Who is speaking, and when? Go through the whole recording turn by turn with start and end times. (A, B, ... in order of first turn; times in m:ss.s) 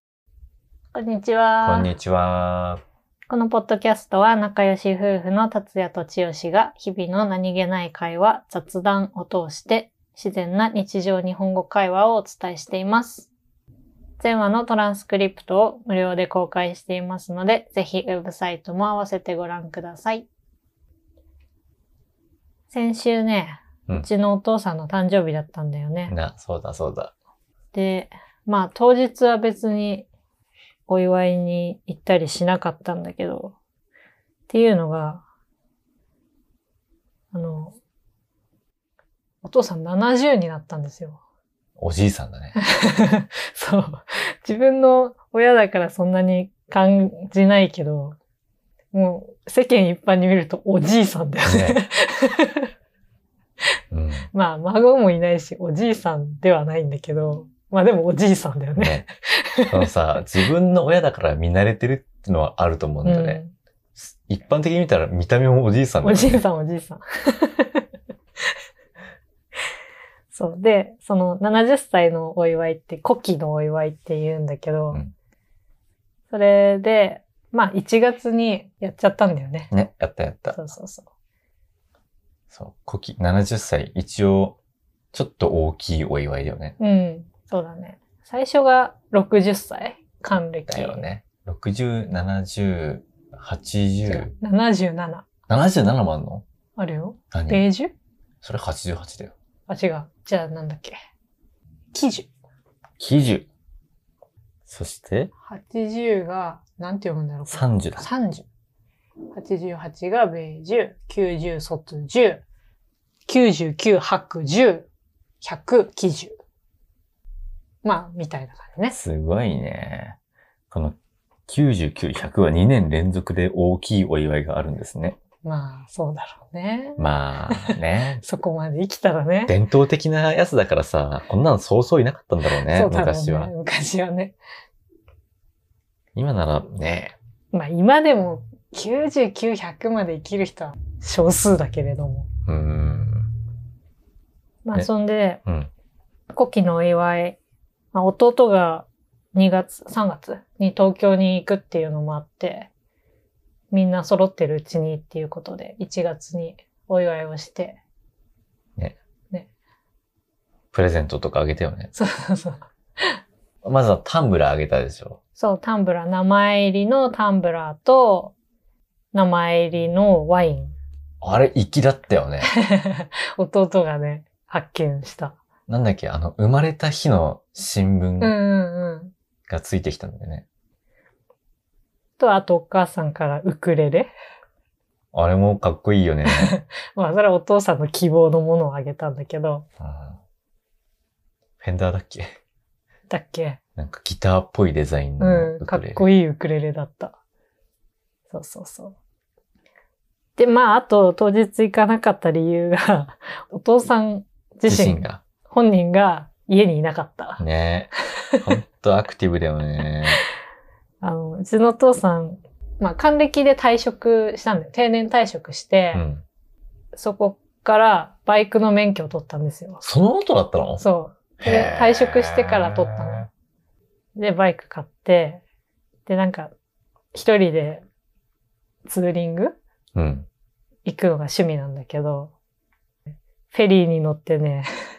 0:00.9-0:01.9 A
0:01.6-0:02.8 B
0:03.3-0:13.3 A
0:14.2-0:20.3 A
0:22.7-0:26.1 A
0:26.1-0:27.1 B
0:27.7-0:30.1 A
0:30.9-0:33.6 A
0:34.5-0:35.2 A
0:37.3-0:37.8 A
0:39.4-0:41.2 A
0:41.8-0:42.6 B
0:42.5-0:48.2 A
0:48.9-0:52.7 A
0:51.4-0:51.8 B
0:53.9-0:54.3 B
0:54.3-0:59.7 A
0:58.8-0:59.1 B
0:59.7-1:03.4 B
1:03.0-1:03.5 A
1:04.0-1:06.4 B
1:06.0-1:07.8 A
1:10.3-1:15.0 A
1:16.3-1:19.7 A
1:19.7-1:20.6 B
1:20.5-1:21.1 A
1:22.5-1:24.6 B
1:25.1-1:26.8 B
1:26.8-1:31.0 A
1:30.7-1:34.3 B
1:34.0-1:35.2 A
1:35.5-1:36.4 B
1:36.8-1:37.9 A
1:37.3-1:37.6 B
1:38.4-1:39.3 B
1:39.7-1:40.9 A
1:41.9-1:42.3 A
1:43.0-1:43.5 B
1:44.6-1:45.3 B
1:45.4-1:48.4 A
1:47.5-1:48.1 B
1:49.3-1:52.4 A
1:53.3-1:54.9 A
1:55.4-1:56.3 A
1:57.8-1:59.0 A
1:58.9-2:00.2 B
2:00.7-2:05.2 B
2:05.4-2:09.5 A
2:07.0-2:08.2 B
2:09.5-2:13.5 B
2:12.6-2:14.4 A
2:16.1-2:17.2 B
2:17.5-2:22.3 A
2:22.5-2:23.3 B
2:24.6-2:25.4 A
2:26.3-2:27.4 A
2:27.9-2:32.7 A
2:33.7-2:37.8 A
2:40.7-2:41.9 B
2:41.9-2:43.0 A
2:43.6-2:45.2 B
2:45.4-2:48.3 A
2:49.1-2:50.8 A
2:51.2-2:52.5 B
2:52.5-2:55.4 A
2:55.7-2:58.4 B
2:58.2-2:59.1 A
2:59.5-3:00.4 B
3:02.2-3:04.1 A
3:05.1-3:06.6 B
3:06.3-3:09.6 A
3:09.8-3:10.2 B
3:11.6-3:12.4 B
3:13.1-3:13.6 A
3:13.8-3:16.0 B
3:15.2-3:17.2 A
3:18.3-3:19.0 A
3:20.4-3:27.4 A
3:24.7-3:25.2 B
3:27.4-3:27.9 B
3:28.4-3:30.2 B
3:31.0-3:36.0 A
3:35.9-3:36.2 B
3:36.9-3:39.8 A
3:39.8-3:40.8 B
3:40.8-3:43.3 A
3:41.4-3:43.2 B
3:44.2-3:45.4 A
3:46.0-3:46.5 A
3:47.1-3:47.8 A
3:48.8-3:49.6 A
3:50.0-3:50.3 B
3:50.8-3:52.3 A
3:53.5-3:54.6 A